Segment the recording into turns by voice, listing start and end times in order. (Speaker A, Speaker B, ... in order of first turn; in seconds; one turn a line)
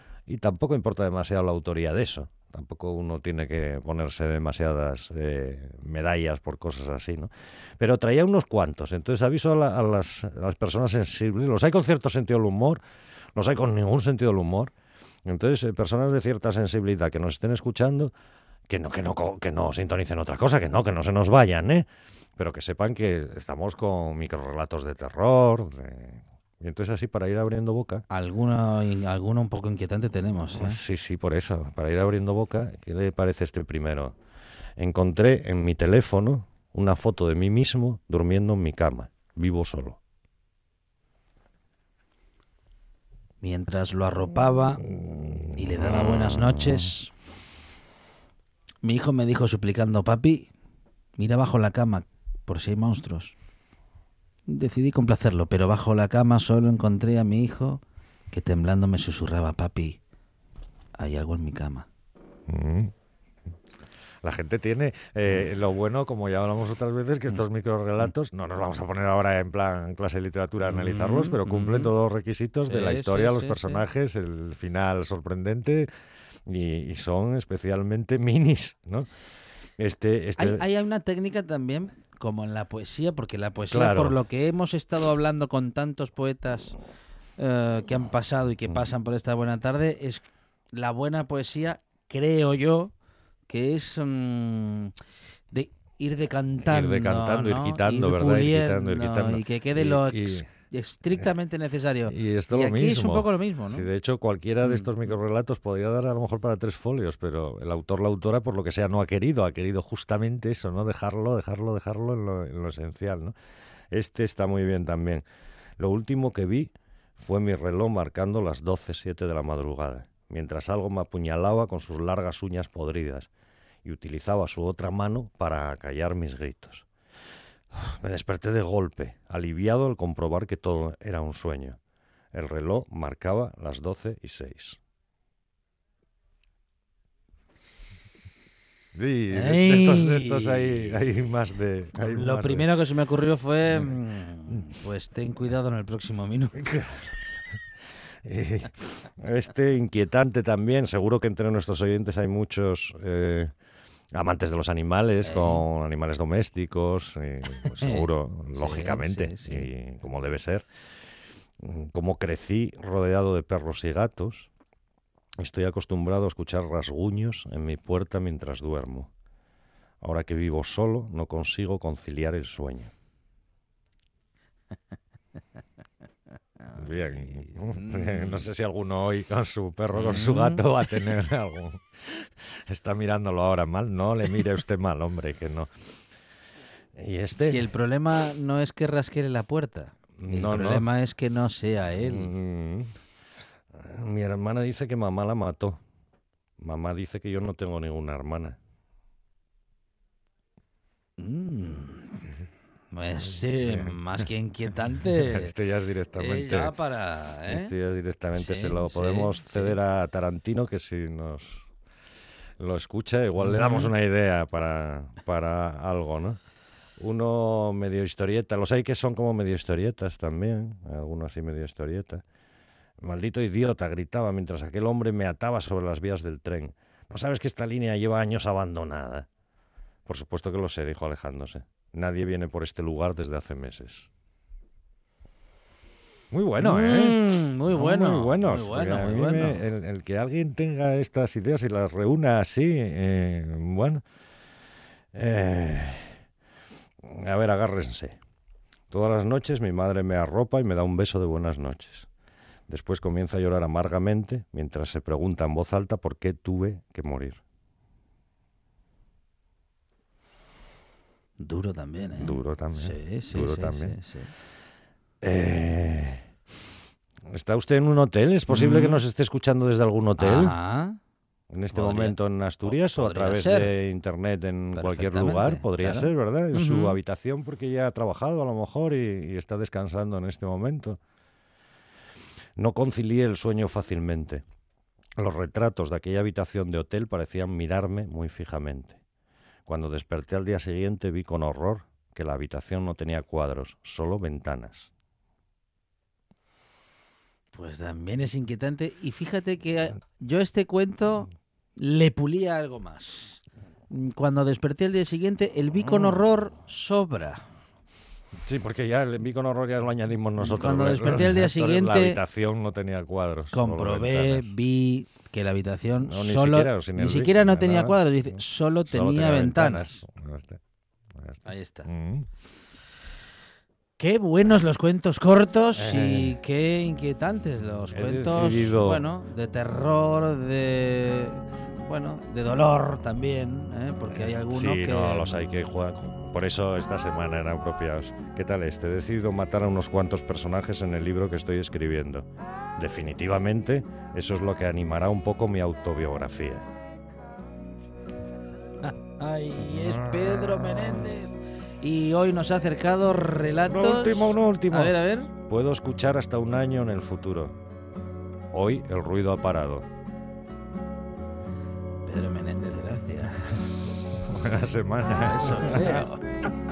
Speaker A: 0.3-12.8
Speaker A: 13.3-14.7
Speaker A: 15.2-18.1
Speaker A: 18.7-28.0
Speaker B: 28.1-30.8
Speaker A: 30.5-34.1
Speaker A: 34.8-40.0
Speaker B: 43.4-44.9
Speaker A: 45.5-46.9
Speaker B: 45.5-47.1
Speaker B: 48.8-50.5
Speaker B: 51.2-53.3
Speaker B: 54.5-60.0
Speaker B: 61.0-61.9
Speaker A: 62.5-62.9
Speaker A: 64.2-75.9
Speaker B: 70.6-71.9
Speaker B: 72.7-73.8
Speaker A: 76.5-79.1
Speaker A: 79.8-80.6
Speaker B: 80.4-86.7
Speaker A: 83.7-84.2
Speaker B: 87.4-92.9
Speaker B: 93.5-94.9
Speaker B: 95.5-103.9
Speaker A: 96.6-100.5
Speaker A: 102.1-113.3
Speaker B: 104.6-105.1
Speaker A: 113.9-115.2
Speaker A: 115.8-123.3
Speaker A: 123.8-126.8
Speaker A: 127.7-131.8
Speaker A: 132.3-134.8
Speaker A: 138.9-142.7
Speaker B: 139.3-141.0
Speaker B: 141.9-146.6
Speaker A: 146.6-147.1
Speaker A: 148.2-153.5
Speaker A: 154.1-160.6
Speaker B: 155.2-155.6
Speaker B: 157.7-159.7
Speaker A: 161.6-164.5
Speaker A: 165.4-169.1
Speaker A: 170.0-172.9
Speaker A: 176.7-185.7
Speaker B: 177.0-178.4
Speaker B: 179.9-181.1
Speaker A: 186.9-187.7
Speaker B: 187.4-192.3
Speaker A: 190.2-190.9
Speaker A: 192.0-192.9
Speaker A: 193.7-195.8
Speaker A: 196.6-198.6
Speaker B: 201.2-202.2
Speaker B: 202.9-205.5
Speaker A: 203.6-204.0
Speaker A: 205.2-206.8
Speaker B: 206.1-207.7
Speaker A: 207.5-211.7
Speaker B: 208.3-209.8
Speaker A: 212.6-216.4
Speaker B: 213.4-213.9
Speaker A: 217.0-222.2
Speaker A: 223.0-229.3
Speaker A: 230.1-234.1
Speaker A: 236.3-244.0
Speaker B: 236.6-239.6
Speaker A: 245.1-246.1
Speaker A: 247.0-248.2
Speaker A: 248.9-252.1
Speaker A: 252.7-257.4
Speaker B: 261.4-264.3
Speaker A: 262.1-264.0
Speaker A: 265.2-266.2
Speaker A: 267.3-270.5
Speaker B: 268.5-269.0
Speaker B: 270.2-271.0
Speaker A: 271.5-281.0
Speaker B: 271.7-273.7
Speaker B: 274.7-277.0
Speaker A: 282.6-284.4
Speaker A: 285.2-289.0
Speaker A: 289.7-294.9
Speaker B: 297.5-307.4
Speaker A: 305.8-306.2
Speaker A: 308.4-314.5
Speaker B: 310.4-312.2
Speaker B: 313.5-320.0
Speaker A: 316.0-320.6
Speaker A: 321.2-322.3
Speaker B: 321.4-321.9
Speaker B: 324.0-335.5
Speaker A: 325.7-326.4
Speaker A: 327.9-329.1
Speaker A: 334.1-346.7
Speaker B: 348.8-355.3
Speaker A: 349.6-351.1
Speaker A: 353.7-357.6
Speaker A: 358.5-359.9
Speaker B: 362.0-363.6
Speaker A: 364.3-366.0
Speaker B: 365.1-366.2